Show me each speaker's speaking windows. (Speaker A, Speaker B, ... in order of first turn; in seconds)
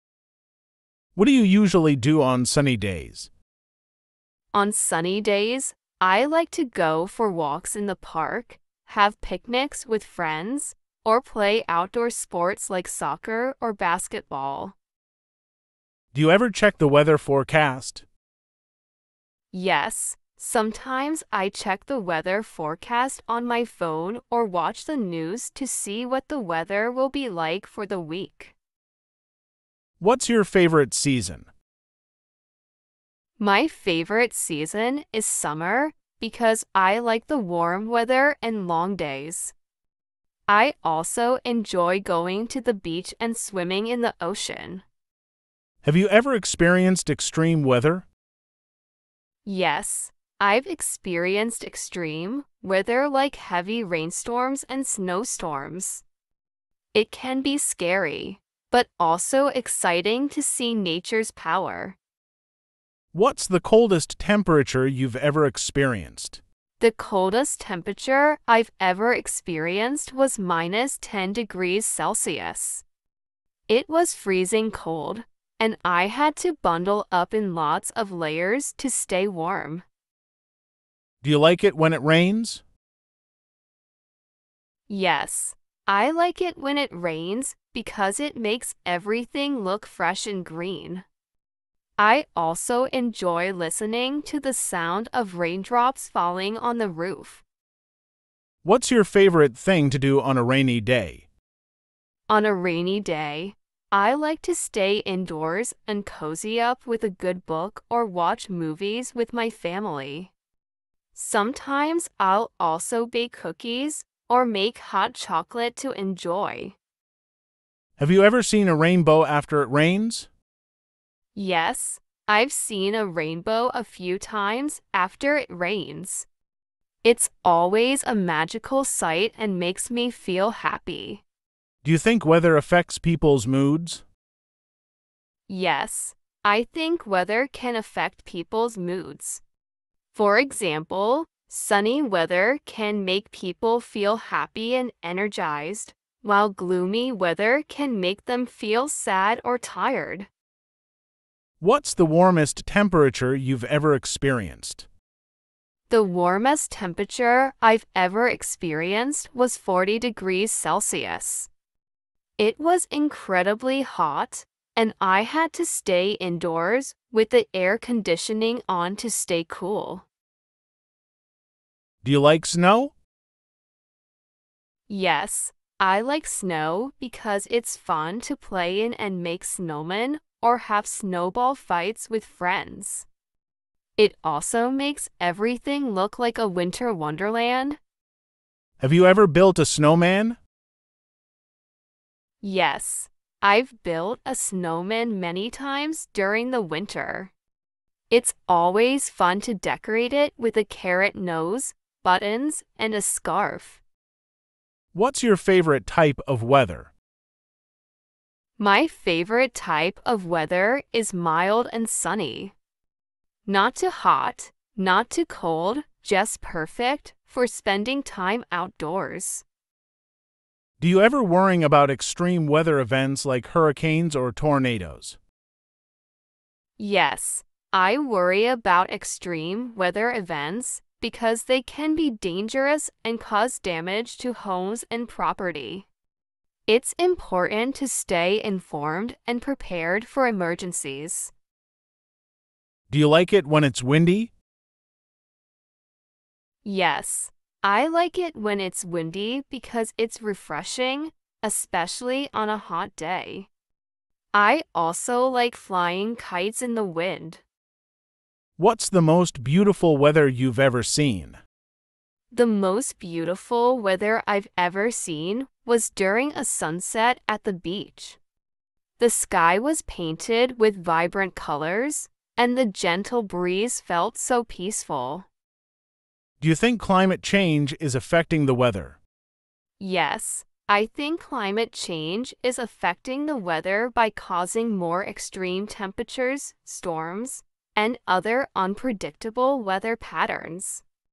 Speaker A: 1.2-3.3, 16.1-18.1, 30.0-31.5, 45.8-48.1, 63.1-66.4, 81.2-82.6, 98.6-101.3, 118.0-120.3, 131.8-134.0, 151.6-154.9, 172.0-172.9, 188.8-190.4, 204.9-206.9, 220.8-225.2, 242.9-244.3, 258.6-261.4, 276.4-279.0
Speaker B: 4.5-14.8, 19.5-28.6, 33.4-39.5, 40.5-44.8, 49.5-56.0, 56.9-62.0, 66.8-72.8, 73.7-79.8, 84.9-91.0, 92.0-97.4, 102.3-110.3, 111.2-116.8, 121.3-126.3, 127.0-131.2, 135.5-139.4, 140.1-150.3, 155.9-161.5, 162.4-170.1, 174.9-183.1, 184.0-187.8, 192.4-197.3, 198.1-203.8, 208.6-212.6, 213.5-219.4, 226.8-235.9, 236.7-241.3, 246.7-253.5, 254.3-257.4, 262.3-268.2, 269.0-275.3, 279.8-290.8